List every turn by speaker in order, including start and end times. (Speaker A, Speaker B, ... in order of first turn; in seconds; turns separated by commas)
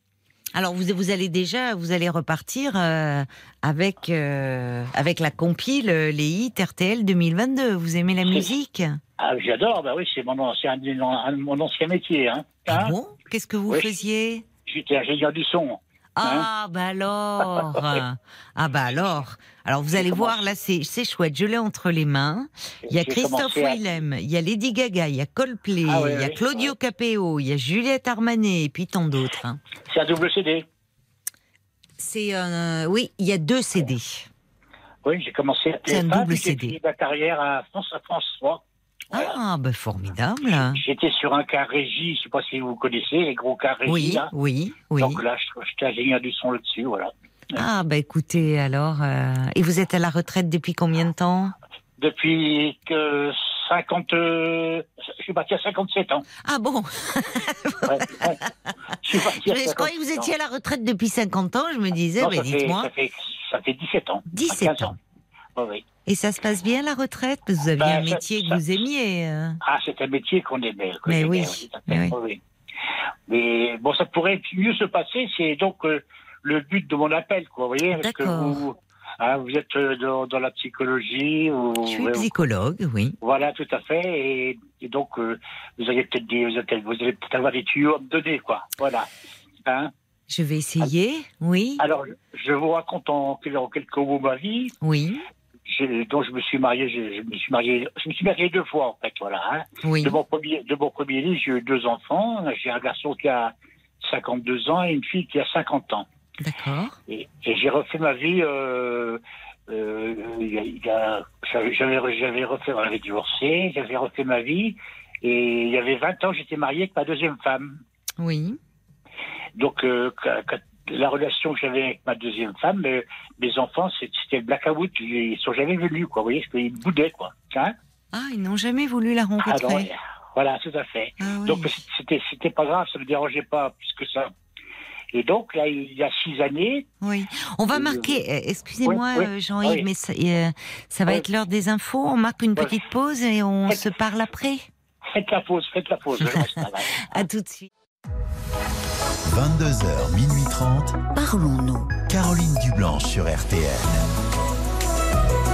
Speaker A: 0.5-9.0, Speaker B: 9.2-12.9, Speaker A: 12.7-14.4, Speaker B: 14.7-16.5, Speaker A: 16.2-29.6, Speaker B: 17.5-18.0, Speaker B: 19.9-20.5, Speaker B: 22.8-23.8, Speaker B: 25.9-26.7, Speaker B: 29.9-30.7, Speaker A: 32.0-34.3, Speaker B: 35.0-39.4, Speaker A: 35.9-36.8, Speaker A: 39.1-40.8, Speaker B: 40.5-44.3, Speaker A: 43.9-45.2, Speaker B: 45.0-47.6, Speaker A: 47.5-51.5, Speaker B: 52.0-56.2, Speaker A: 56.4-58.4, Speaker B: 57.8-58.4, Speaker B: 59.0-60.3, Speaker A: 59.1-62.9, Speaker B: 62.2-65.0, Speaker A: 64.3-64.9, Speaker B: 65.5-65.8, Speaker A: 66.0-69.6, Speaker B: 67.8-68.7, Speaker B: 69.6-72.4, Speaker A: 71.1-72.1, Speaker B: 73.3-82.3, Speaker A: 78.0-78.6, Speaker A: 81.8-83.2, Speaker B: 83.2-89.1, Speaker B: 89.7-89.9, Speaker A: 90.3-91.8, Speaker B: 91.8-94.7, Speaker A: 94.8-95.2, Speaker B: 95.7-106.1, Speaker A: 99.8-100.2, Speaker A: 106.4-107.0, Speaker B: 107.1-117.8, Speaker A: 118.2-118.6, Speaker B: 119.5-127.7, Speaker A: 128.1-129.9, Speaker B: 129.4-134.3, Speaker A: 131.2-131.8, Speaker B: 135.1-136.9, Speaker A: 137.0-144.7, Speaker B: 137.7-138.2, Speaker B: 138.8-139.8, Speaker B: 142.6-142.8, Speaker B: 145.1-147.2, Speaker A: 146.2-147.7, Speaker C: 149.2-151.0, Speaker A: 151.1-152.0, Speaker C: 152.0-154.1